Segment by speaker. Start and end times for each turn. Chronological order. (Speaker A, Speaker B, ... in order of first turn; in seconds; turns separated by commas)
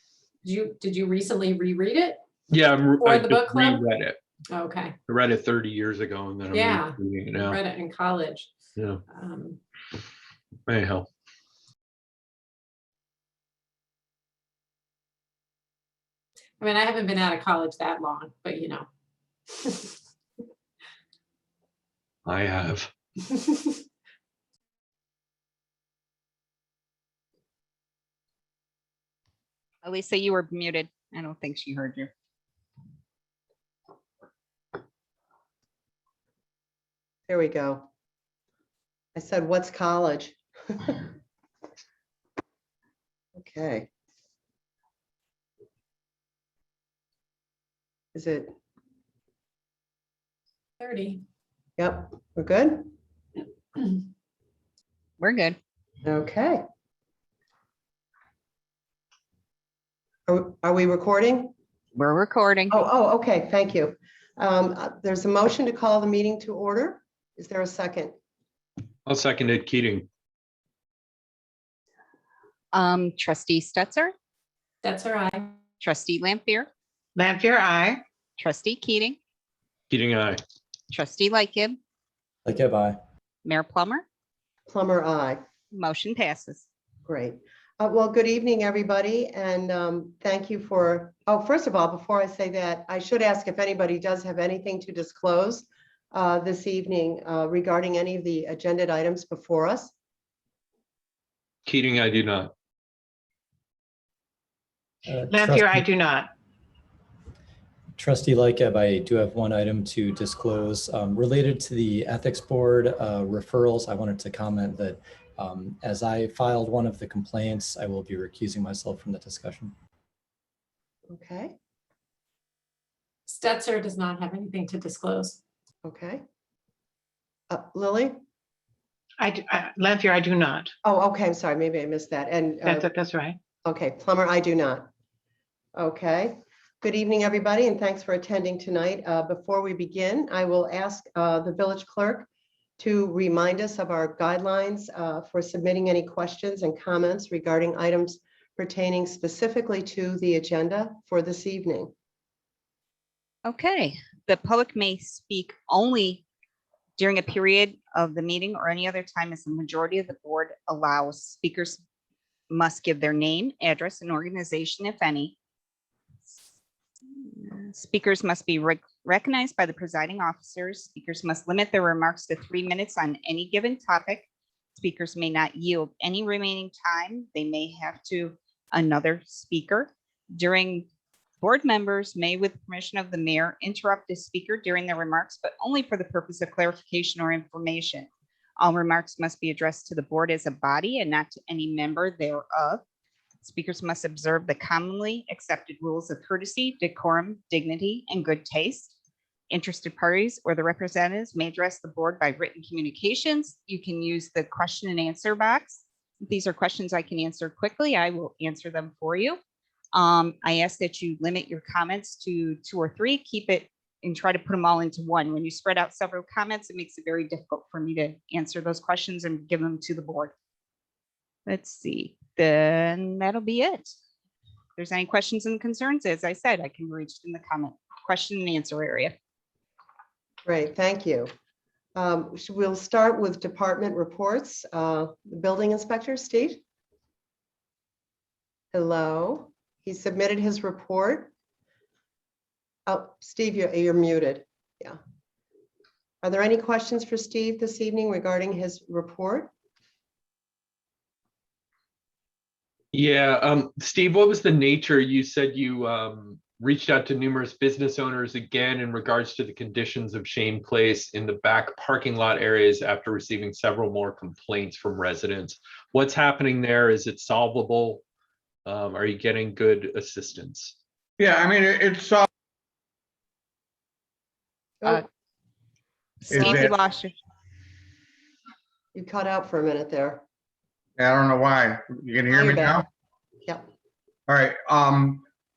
Speaker A: 0.4-2.2, Speaker B: 2.5-4.2, Speaker A: 3.0-3.8, Speaker A: 4.5-5.0, Speaker B: 5.1-7.6, Speaker A: 6.5-8.5, Speaker B: 8.8-9.0, Speaker A: 9.1-9.6, Speaker B: 10.7-11.1, Speaker A: 16.6-18.9, Speaker A: 19.5-20.0, Speaker B: 22.3-22.9, Speaker C: 29.8-32.1, Speaker D: 37.3-37.9, Speaker D: 39.1-41.1, Speaker D: 43.4-43.9, Speaker D: 48.1-48.5, Speaker A: 50.8-51.2, Speaker D: 51.8-52.9, Speaker C: 55.2-55.6, Speaker D: 56.0-56.6, Speaker D: 60.3-61.5, Speaker C: 62.0-62.8, Speaker D: 62.7-68.1, Speaker B: 69.1-70.1, Speaker C: 72.7-74.1, Speaker A: 74.8-75.5, Speaker C: 75.8-76.7, Speaker E: 77.2-78.0, Speaker C: 78.4-79.2, Speaker B: 79.9-80.4, Speaker C: 80.9-81.8, Speaker F: 82.5-83.0, Speaker C: 83.5-84.0, Speaker D: 84.7-85.4, Speaker C: 85.7-86.7, Speaker D: 87.1-99.9, Speaker B: 101.7-102.5, Speaker F: 105.1-105.9, Speaker E: 105.3-106.3, Speaker F: 108.0-119.7, Speaker D: 121.1-121.5, Speaker A: 123.3-125.4, Speaker D: 125.8-126.2, Speaker D: 127.5-128.2, Speaker E: 129.2-130.7, Speaker D: 130.8-132.9, Speaker E: 132.6-133.4, Speaker D: 133.7-134.9, Speaker D: 135.8-142.3, Speaker D: 142.8-151.9, Speaker C: 153.4-156.2, Speaker C: 157.0-161.8, Speaker C: 162.5-165.3, Speaker C: 167.4-180.9, Speaker C: 181.4-192.8, Speaker C: 193.4-198.9, Speaker C: 199.5-209.4, Speaker C: 209.9-220.3, Speaker C: 221.5-223.9, Speaker C: 224.8-229.1, Speaker D: 230.5-231.3, Speaker D: 232.0-236.6, Speaker D: 238.7-241.3, Speaker D: 242.9-245.0, Speaker D: 246.2-249.5, Speaker B: 252.9-268.0, Speaker B: 268.7-270.8, Speaker G: 271.2-272.3, Speaker C: 276.3-277.1, Speaker G: 276.3-276.7, Speaker D: 278.9-280.2, Speaker G: 281.0-282.9, Speaker D: 282.3-282.8, Speaker G: 284.3-285.2